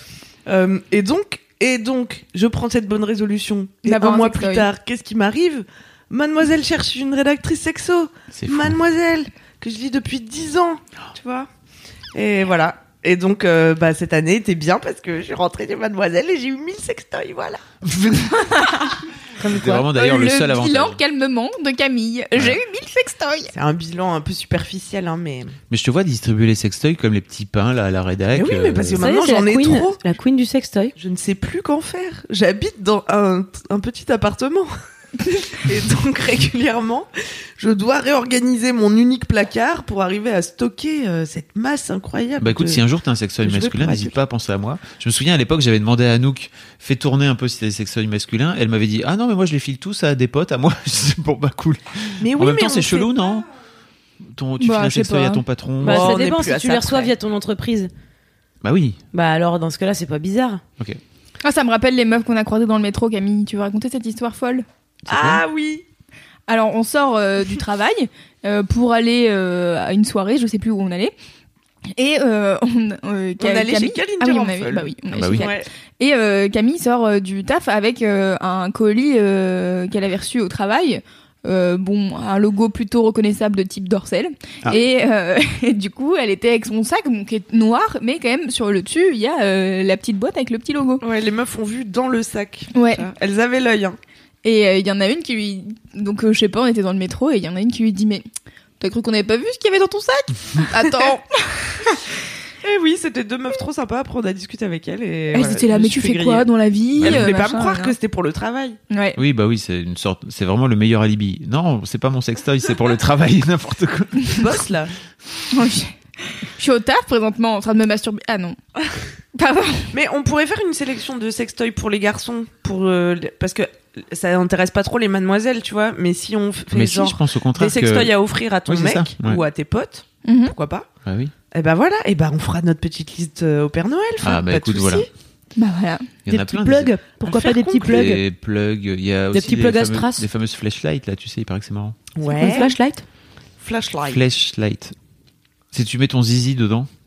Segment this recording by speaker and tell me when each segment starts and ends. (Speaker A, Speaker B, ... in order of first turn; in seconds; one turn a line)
Speaker A: 0.5-11.5
Speaker B: 3.9-4.7
Speaker C: 8.3-8.8
Speaker A: 12.2-17.6
Speaker C: 17.8-18.8
Speaker D: 19.4-19.8
Speaker C: 19.4-21.0
Speaker B: 19.9-23.5
Speaker A: 23.5-25.6
Speaker C: 25.7-29.1
Speaker A: 28.3-30.0
Speaker D: 29.0-30.9
Speaker A: 31.0-34.7
Speaker A: 35.5-42.8
Speaker C: 42.4-53.5
Speaker A: 43.4-44.2
Speaker A: 52.2-53.4
Speaker C: 54.3-56.2
Speaker B: 54.6-55.4
Speaker A: 55.8-57.1
Speaker D: 55.8-57.9
Speaker C: 58.6-59.0
Speaker D: 59.1-60.6
Speaker B: 61.4-64.7
Speaker C: 65.1-65.4
Speaker A: 65.1-65.8
Speaker B: 66.5-71.1
Speaker B: 72.0-91.0
Speaker A: 73.4-75.7
Speaker C: 75.1-75.5
Speaker A: 91.0-94.0
Speaker B: 92.7-93.1
Speaker B: 94.4-98.3
Speaker B: 98.8-102.0
Speaker A: 102.6-108.8
Speaker B: 105.3-108.0
Speaker C: 107.0-107.3
Speaker B: 108.9-109.2
Speaker C: 109.2-114.5
Speaker A: 114.3-114.9
Speaker B: 115.5-118.6
Speaker B: 119.3-119.9
Speaker A: 119.9-130.9
Speaker C: 126.7-128.1
Speaker C: 128.7-129.4
Speaker B: 130.2-130.6
Speaker C: 131.1-131.3
Speaker A: 131.5-135.1
Speaker C: 134.2-135.1
Speaker B: 135.6-136.2
Speaker C: 136.2-136.9
Speaker D: 136.3-138.2
Speaker A: 137.2-138.1
Speaker C: 137.8-142.0
Speaker D: 139.3-140.3
Speaker A: 142.2-142.7
Speaker D: 142.4-143.1
Speaker A: 143.6-144.2
Speaker C: 144.1-144.9
Speaker C: 145.7-146.9